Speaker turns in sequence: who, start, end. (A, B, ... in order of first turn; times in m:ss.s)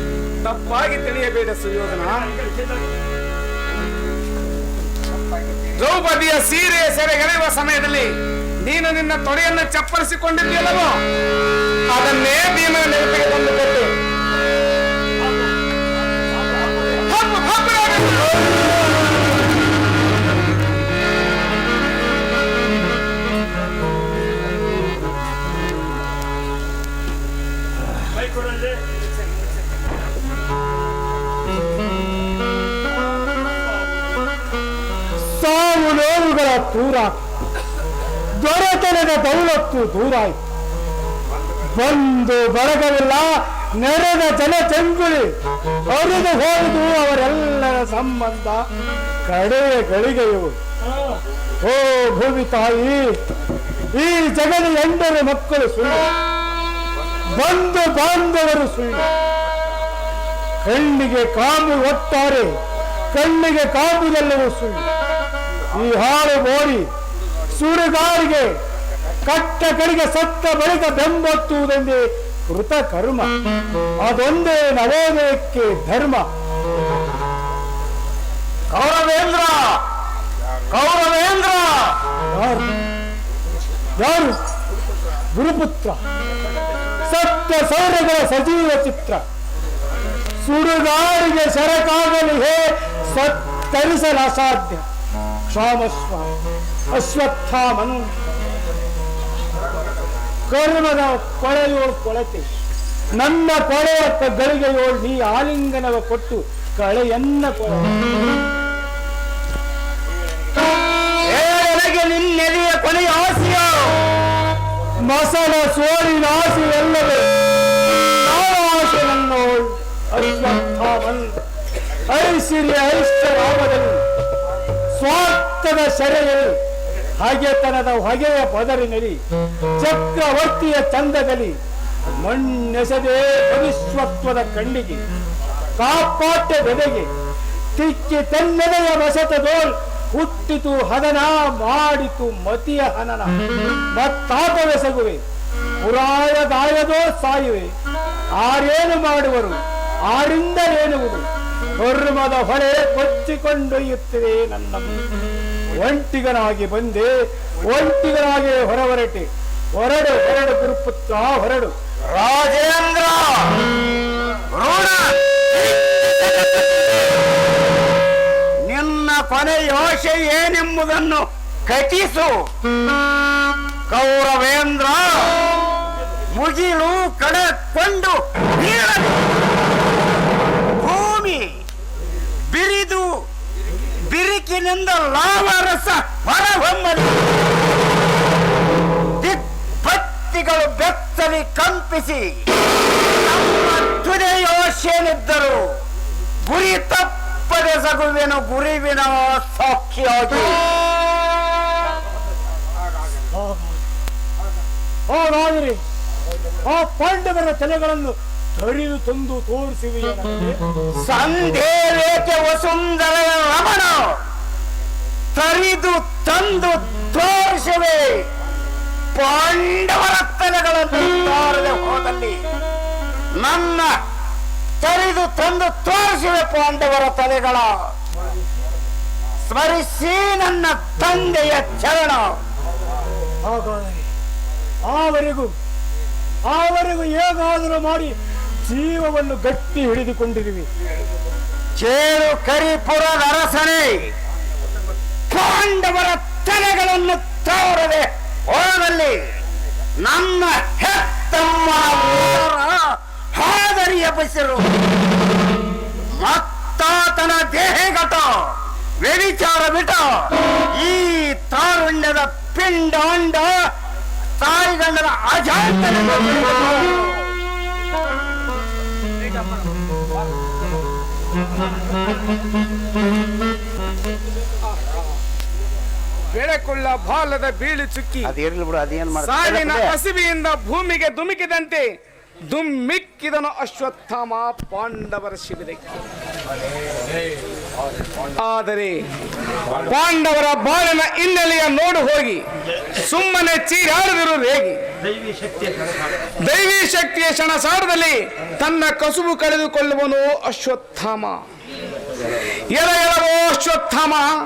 0:00.4-0:02.2 A
0:05.8-0:08.1 A
0:08.6-0:11.0 A
0:11.9-0:13.9 A
0:17.1-0:18.7 A
0:35.4-0:37.2 B
0:38.4-0:40.4 B
0:41.7-0:45.3 B
0:45.9-0:48.7 B
0:49.3-0:50.6 B
0:51.6-0:53.1 B
0:54.0-0:56.1 B
0:57.4-0:59.1 B
1:00.6-1:02.5 B
1:03.1-1:04.9 B
1:05.8-1:06.9 B
1:07.5-1:08.5 B
1:09.3-1:13.3 B
1:14.0-1:16.3 B
1:18.7-1:19.8 C
1:20.7-1:22.0 C
1:22.3-1:22.7 B
1:24.0-1:24.4 B
1:25.4-1:26.0 B
1:27.1-1:29.2 B
1:30.4-1:34.8 B
1:35.5-1:36.3 B
1:36.9-1:38.1 B
1:40.5-1:42.5 B
1:43.2-1:48.0 B
1:51.3-1:54.0 C
1:55.1-1:57.2 B
1:58.2-2:01.4 B
2:02.1-2:04.0 B
2:05.0-2:06.6 B
2:07.2-2:09.2 B
2:09.8-2:11.6 B
2:12.2-2:15.0 B
2:15.8-2:17.1 B
2:17.8-2:23.4 B
2:24.0-2:25.2 B
2:25.8-2:27.7 B
2:28.4-2:29.6 B
2:30.1-2:31.3 B
2:31.8-2:35.0 B
2:35.8-2:37.1 B
2:37.7-2:41.8 B
2:42.1-2:43.6 C
2:44.5-2:46.7 C
2:48.7-2:52.4 C
2:53.9-2:55.3 C
2:56.4-2:59.3 C
3:00.8-3:01.6 C
3:02.5-3:03.2 C
3:04.0-3:07.2 C
3:09.2-3:12.4 C
3:13.2-3:15.7 C
3:16.4-3:20.6 C
3:23.3-3:23.8 B
3:25.1-3:25.8 B
3:26.7-3:30.6 B
3:31.0-3:34.2 C
3:35.4-3:38.2 C
3:39.2-3:42.4 C
3:43.4-3:43.9 C
3:44.8-3:47.9 C
3:49.4-3:52.4 C
3:53.5-3:54.1 B
3:54.9-3:55.6 B
3:56.5-3:58.2 B
3:58.7-4:00.7 B
4:01.8-4:04.1 C
4:05.3-4:09.2 C
4:10.0-4:14.7 C
4:16.2-4:23.5 C
4:24.4-4:27.0 C
4:36.3-4:38.3 A
4:38.2-4:39.9 C
4:39.2-4:41.9 A
4:42.5-4:46.0 A
4:48.4-4:49.1 A
4:49.9-4:52.4 A
4:53.0-4:54.8 A
4:56.4-5:01.4 A
5:02.7-5:04.3 A